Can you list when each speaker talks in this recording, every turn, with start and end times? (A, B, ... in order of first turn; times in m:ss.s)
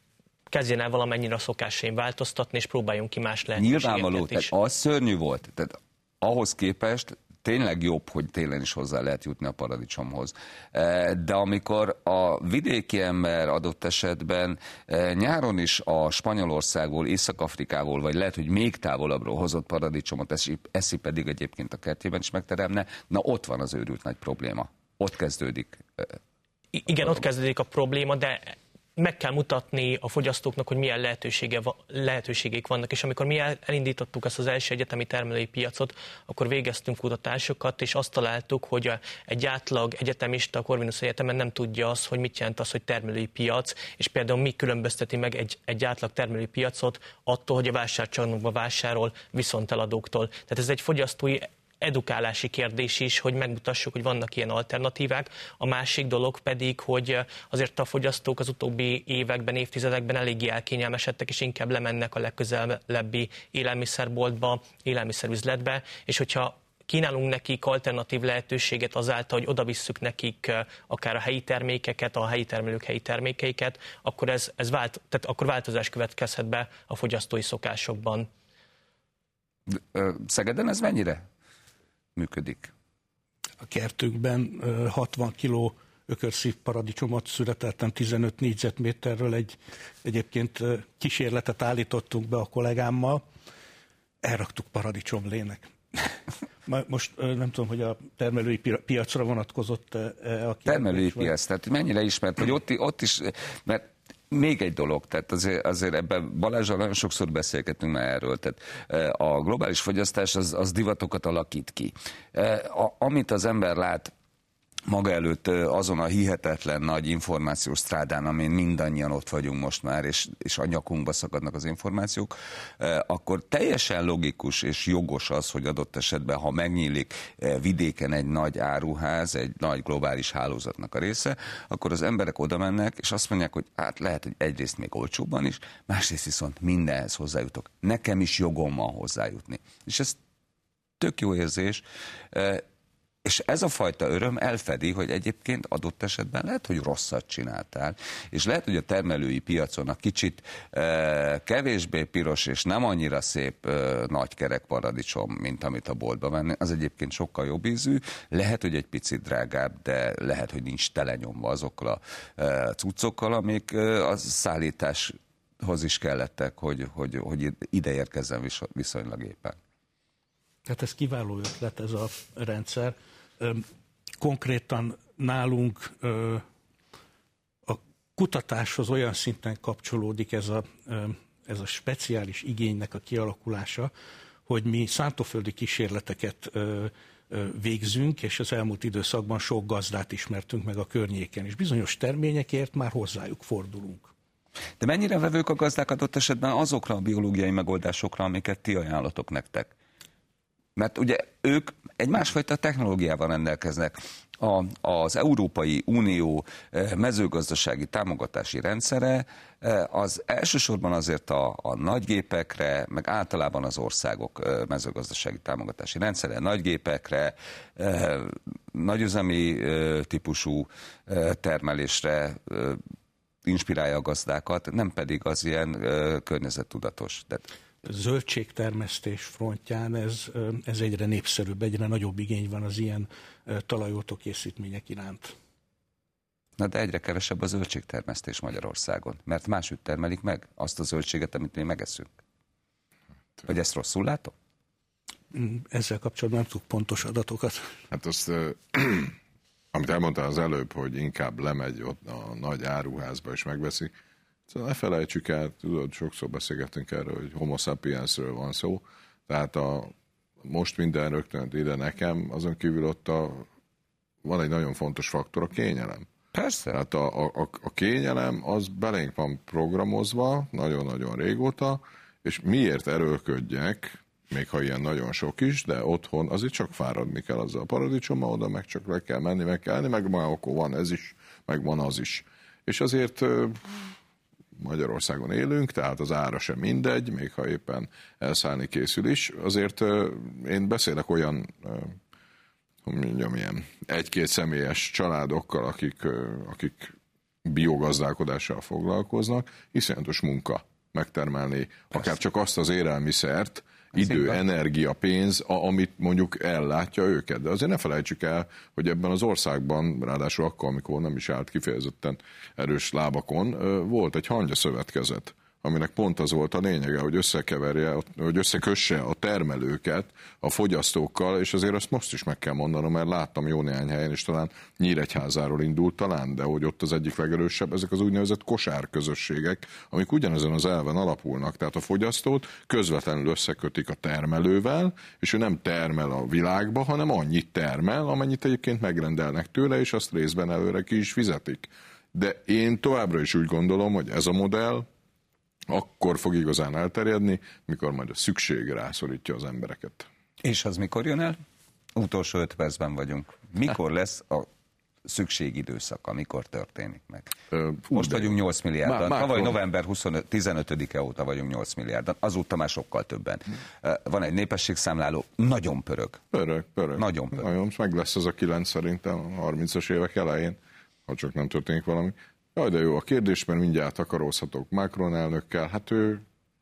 0:00.5-0:04.5 A
0:03.6-0:26.2 B
0:26.7-1:18.3 A
1:19.7-1:21.2 B
1:22.2-1:22.7 B
1:23.6-1:33.2 C
1:34.2-1:41.3 C
1:40.6-1:54.1 B
1:54.9-2:20.2 B
2:21.0-2:22.6 B
2:23.2-2:49.6 B
2:50.6-2:53.6 C
2:54.2-2:56.4 C
2:57.6-3:03.9 C
3:04.5-3:14.1 C
3:14.8-3:19.7 B
3:20.8-3:42.8 B
3:43.4-3:47.4 B
3:47.8-3:55.3 C
3:56.6-4:02.1 B
4:03.4-4:04.3 B
4:05.3-4:07.7 C
4:07.9-4:09.1 D
4:09.7-4:13.9 D
4:14.5-4:19.9 D
4:20.4-4:23.4 D
4:24.2-4:26.1 D
4:26.3-4:26.8 B
4:26.7-4:43.9 D
4:44.6-4:52.0 D
4:52.8-4:56.9 D
4:57.4-5:44.8 D
5:45.7-5:50.1 D
5:50.4-5:51.4 B
5:51.9-5:54.5 B
5:55.0-5:57.3 B
5:57.5-5:58.3 D
5:57.9-6:06.2 B
5:58.8-5:59.6 D
6:06.3-6:16.2 D
6:07.0-6:07.4 B